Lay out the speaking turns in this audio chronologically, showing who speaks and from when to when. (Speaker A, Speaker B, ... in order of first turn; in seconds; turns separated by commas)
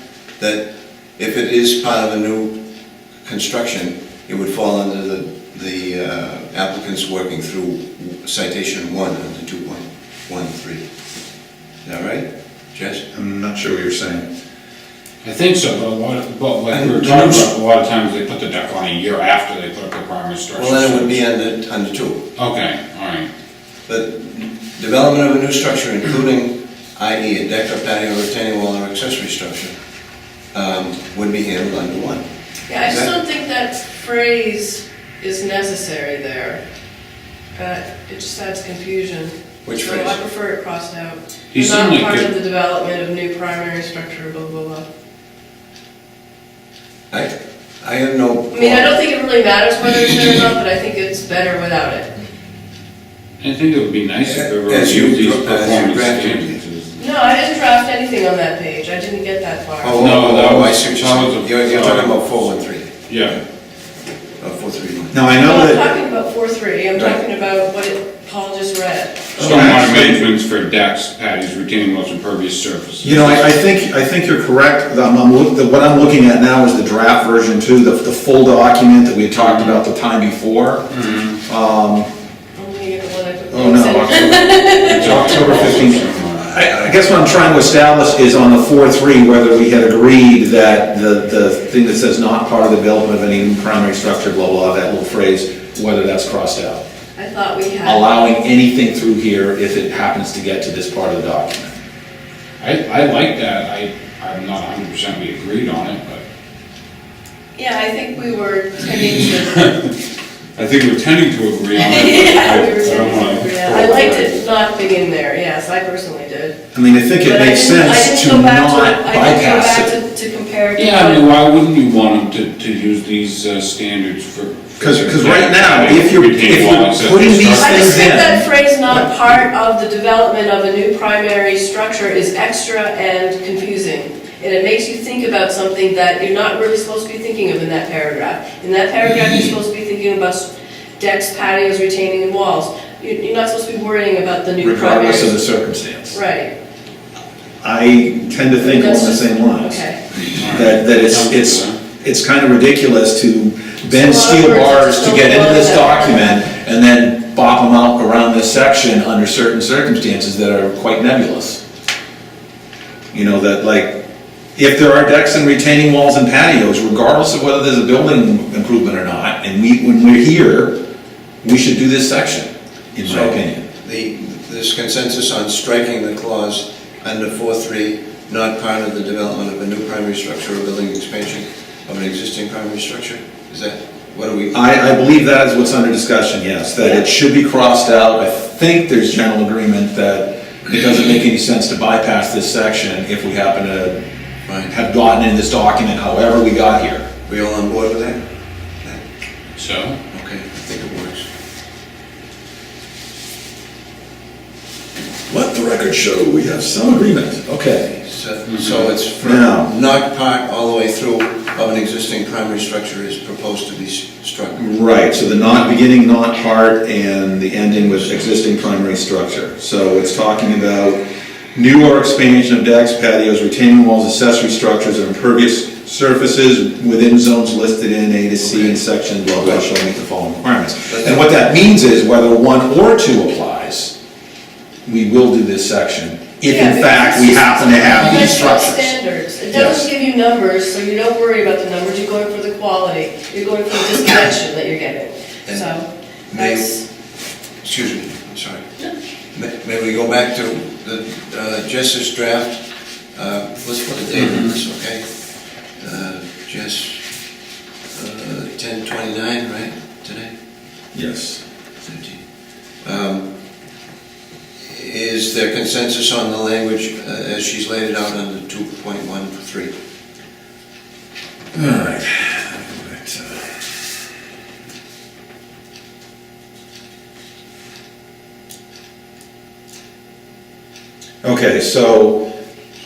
Speaker A: 0.4-0.7, Speaker A: 1.2-2.5, Speaker A: 3.2-10.8, Speaker A: 11.8-13.0, Speaker B: 13.1-14.2, Speaker C: 15.2-21.1, Speaker A: 16.7-17.5, Speaker A: 20.5-22.2, Speaker C: 22.4-23.3, Speaker A: 23.9-29.7, Speaker A: 30.5-32.2, Speaker D: 32.7-36.6, Speaker A: 32.8-33.1, Speaker D: 37.5-44.8, Speaker A: 39.6-40.2, Speaker C: 41.5-42.3, Speaker A: 47.1-49.0, Speaker D: 48.5-52.1, Speaker C: 53.4-57.0, Speaker A: 54.3-56.6, Speaker D: 57.0-60.0, Speaker A: 59.8-63.4, Speaker C: 60.0-62.5, Speaker C: 63.1-63.4, Speaker A: 64.4-65.2, Speaker B: 65.1-65.8, Speaker D: 65.3-69.3, Speaker C: 69.3-73.5, Speaker B: 69.4-70.2, Speaker B: 73.0-80.9, Speaker C: 79.4-79.8, Speaker C: 80.9-81.4, Speaker B: 81.4-82.1, Speaker D: 82.5-85.9, Speaker B: 83.5-96.8, Speaker C: 84.8-86.6, Speaker D: 97.1-98.3, Speaker B: 97.8-101.8, Speaker C: 102.6-106.2, Speaker D: 107.5-109.8, Speaker C: 109.6-109.9, Speaker C: 110.5-114.3, Speaker D: 111.7-116.5, Speaker B: 116.7-119.9, Speaker D: 117.2-121.3, Speaker C: 120.8-128.1, Speaker B: 124.8-129.1, Speaker D: 127.5-145.3, Speaker B: 144.6-146.2, Speaker D: 146.1-146.5, Speaker B: 147.6-149.8, Speaker D: 148.6-150.0, Speaker C: 150.3-151.8, Speaker B: 150.5-161.6, Speaker D: 153.9-156.3, Speaker B: 163.1-164.0, Speaker B: 164.6-170.7, Speaker B: 171.4-173.6, Speaker A: 173.0-184.6, Speaker B: 184.5-194.0, Speaker B: 194.7-197.1, Speaker A: 197.2-198.2, Speaker C: 199.6-200.0, Speaker A: 200.1-201.2, Speaker B: 205.3-207.9, Speaker A: 207.8-214.6, Speaker C: 208.5-208.9, Speaker B: 209.2-209.7, Speaker B: 214.5-221.0, Speaker B: 221.5-233.9, Speaker A: 228.4-228.8, Speaker A: 230.9-231.2, Speaker B: 234.8-238.9, Speaker D: 236.5-246.8, Speaker B: 239.5-239.9, Speaker A: 246.3-246.7, Speaker A: 247.6-248.7, Speaker A: 249.3-252.6, Speaker A: 253.1-255.0, Speaker A: 255.8-257.0, Speaker A: 257.9-260.3, Speaker B: 260.9-261.4, Speaker A: 261.8-262.2, Speaker A: 262.8-263.3, Speaker A: 264.6-269.7, Speaker B: 271.5-273.4, Speaker B: 281.2-282.2